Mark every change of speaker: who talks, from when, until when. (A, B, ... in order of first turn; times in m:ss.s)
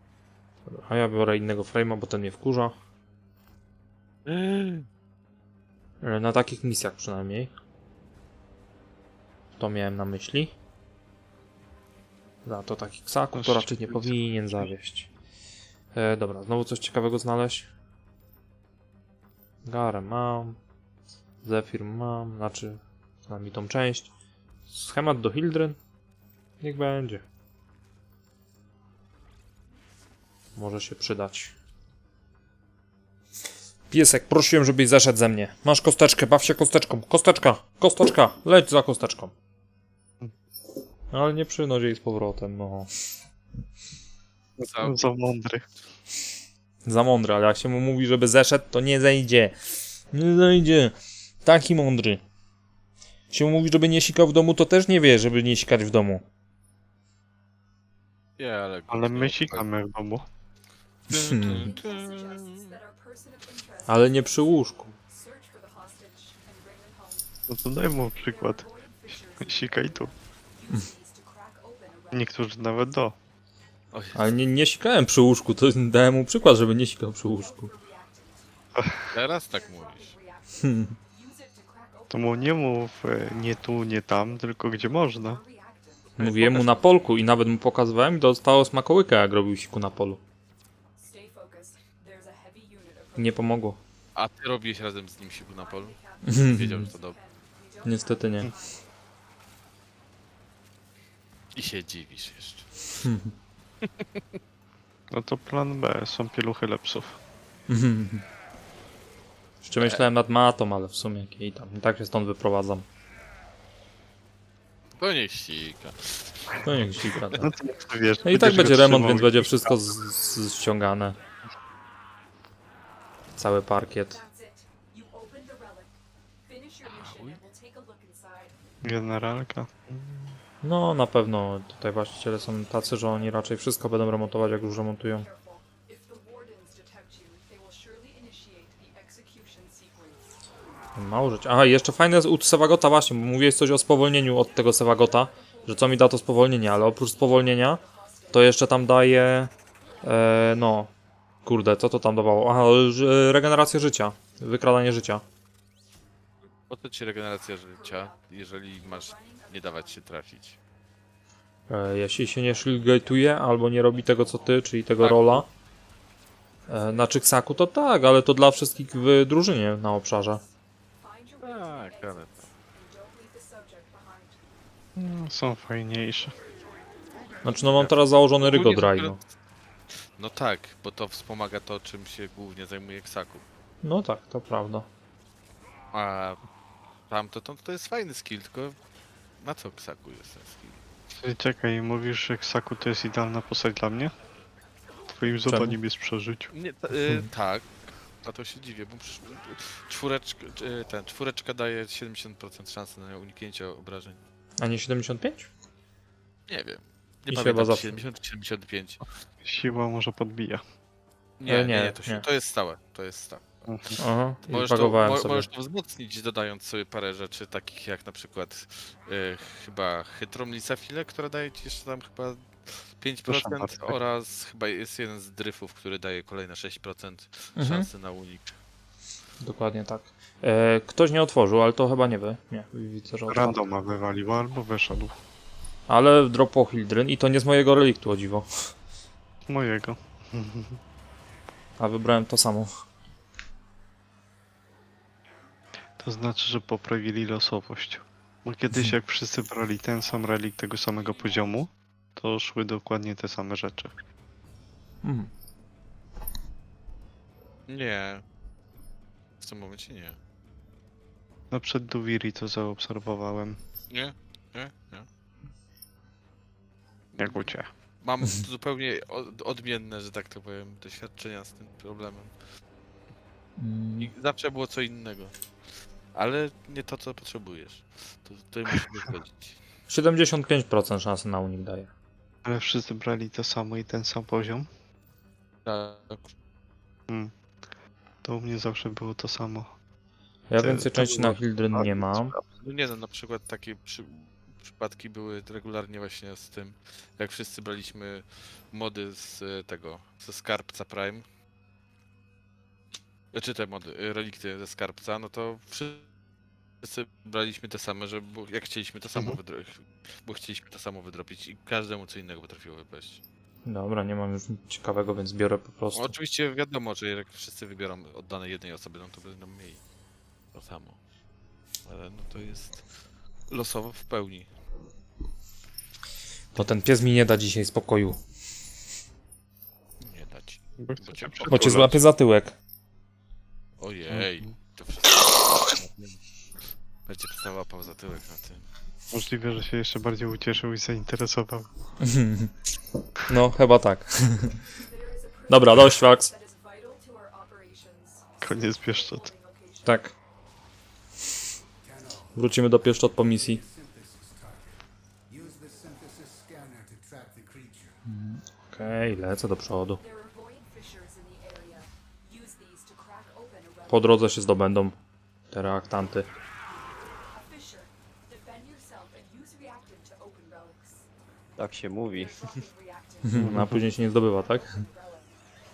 0:00.7-0:02.8 A
0:04.3-0:04.9 B
0:06.0-0:07.5 A
0:09.6-0:10.5 A
0:12.4-0:15.1 A
0:13.4-0:14.7 C
0:15.9-0:17.7 A
0:19.7-0:20.6 A
0:21.4-0:24.1 A
0:24.7-0:25.8 A
0:26.6-0:27.2 A
0:30.6-0:31.5 A
0:33.9-0:39.3 A
0:41.1-0:42.9 A
0:44.6-0:45.1 B
0:44.8-0:45.7 C
0:46.8-0:49.6 A
0:50.1-0:52.2 A
0:53.3-0:56.2 A
0:58.4-0:59.7 B
0:58.9-1:00.3 C
1:01.1-1:01.7 A
1:01.1-1:02.8 B
1:01.4-1:12.4 D
1:03.9-1:05.0 A
1:07.5-1:08.7 C
1:09.4-1:10.1 C
1:12.1-1:13.2 C
1:13.9-1:14.3 B
1:14.1-1:17.7 A
1:17.2-1:26.2 D
1:19.1-1:20.2 B
1:20.6-1:20.9 A
1:22.1-1:25.4 C
1:26.2-1:26.9 B
1:26.2-1:30.2 A
1:31.0-1:33.6 D
1:33.2-1:33.8 A
1:34.2-1:37.2 B
1:35.6-1:38.9 D
1:36.2-1:36.9 A
1:37.8-1:38.5 A
1:41.5-1:42.7 B
1:43.0-1:43.3 A
1:43.8-1:44.2 B
1:45.1-1:47.2 C
1:47.7-1:48.2 A
1:49.6-1:52.8 A
1:49.8-1:50.0 B
1:55.0-1:56.7 B
1:56.6-1:57.5 A
1:57.1-1:59.7 C
1:57.3-1:59.2 D
1:58.2-2:01.2 A
2:03.4-2:04.2 A
2:04.1-2:08.6 D
2:06.8-2:07.4 B
2:08.8-2:10.4 C
2:10.6-2:15.3 A
2:15.1-2:20.2 D
2:21.0-2:29.5 A
2:24.3-2:28.6 D
2:30.0-2:30.9 A
2:31.4-2:35.2 A
2:36.7-2:40.6 B
2:37.7-2:40.0 D
2:41.7-2:45.5 A
2:45.0-2:45.5 B
2:46.7-2:47.1 D
2:46.7-2:50.4 A
2:51.0-2:54.4 D
2:51.4-2:52.4 B
2:55.0-2:56.4 C
2:56.4-2:57.7 D
2:57.4-2:59.2 A
2:57.8-2:59.3 B
3:00.2-3:03.4 B
3:03.8-3:04.9 A
3:05.9-3:06.4 B
3:07.1-3:08.8 B
3:09.4-3:10.8 B
3:11.1-3:14.1 C
3:15.1-3:16.5 C
3:15.5-3:15.8 A
3:16.5-3:17.7 B
3:18.2-3:24.2 B
3:24.6-3:25.5 A
3:26.5-3:29.1 B
3:27.3-3:28.0 A
3:29.4-3:30.6 C
3:31.4-3:48.6 B
3:31.5-3:32.2 A
3:33.7-3:34.0 C
3:34.0-3:35.5 A
3:43.3-3:44.0 C
3:47.6-3:47.9 A
3:49.4-3:53.6 A
3:53.3-3:55.2 C
3:55.9-3:58.7 A
3:59.5-4:00.8 C
4:01.8-4:02.7 A
4:06.0-4:13.9 C
4:15.0-4:15.3 A
4:17.7-4:18.2 B
4:19.4-4:20.2 B
4:21.5-4:23.6 C
4:23.9-4:25.1 B
4:27.2-4:27.5 B
4:27.2-4:27.7 C
4:28.0-4:32.3 B
4:33.6-4:34.1 A
4:34.0-4:35.4 B
4:36.2-4:39.6 B
4:39.9-4:41.9 A
4:42.4-4:44.7 C
4:45.6-4:46.3 B
4:48.2-4:49.7 C
4:50.5-4:52.4 A
4:50.6-4:52.4 C
4:52.6-5:01.2 B
5:03.3-5:06.1 B
5:06.8-5:13.2 B
5:13.6-5:16.2 A
5:16.0-5:19.8 B
5:20.5-5:21.0 B
5:21.9-5:22.8 B
5:23.5-5:24.5 B
5:26.6-5:28.2 A
5:30.0-5:31.8 B
5:30.8-5:32.0 C
5:31.4-5:32.6 A
5:33.8-5:36.2 B
5:37.1-5:38.6 B
5:39.1-5:41.7 C
5:42.0-5:42.5 A
5:43.3-5:44.6 A
5:44.6-5:50.0 D
5:45.5-5:46.3 A
5:48.4-5:49.3 C
5:49.8-5:50.1 A
5:51.9-5:52.3 E
5:52.3-5:53.6 A
5:53.5-5:54.7 E
5:55.3-5:57.9 E
5:58.1-6:00.0 A
6:00.0-6:04.3 D
6:03.9-6:05.0 A
6:05.5-6:06.3 A
6:07.3-6:11.1 D
6:11.6-6:12.4 E
6:12.1-6:15.3 D
6:13.2-6:14.8 A
6:13.4-6:13.8 C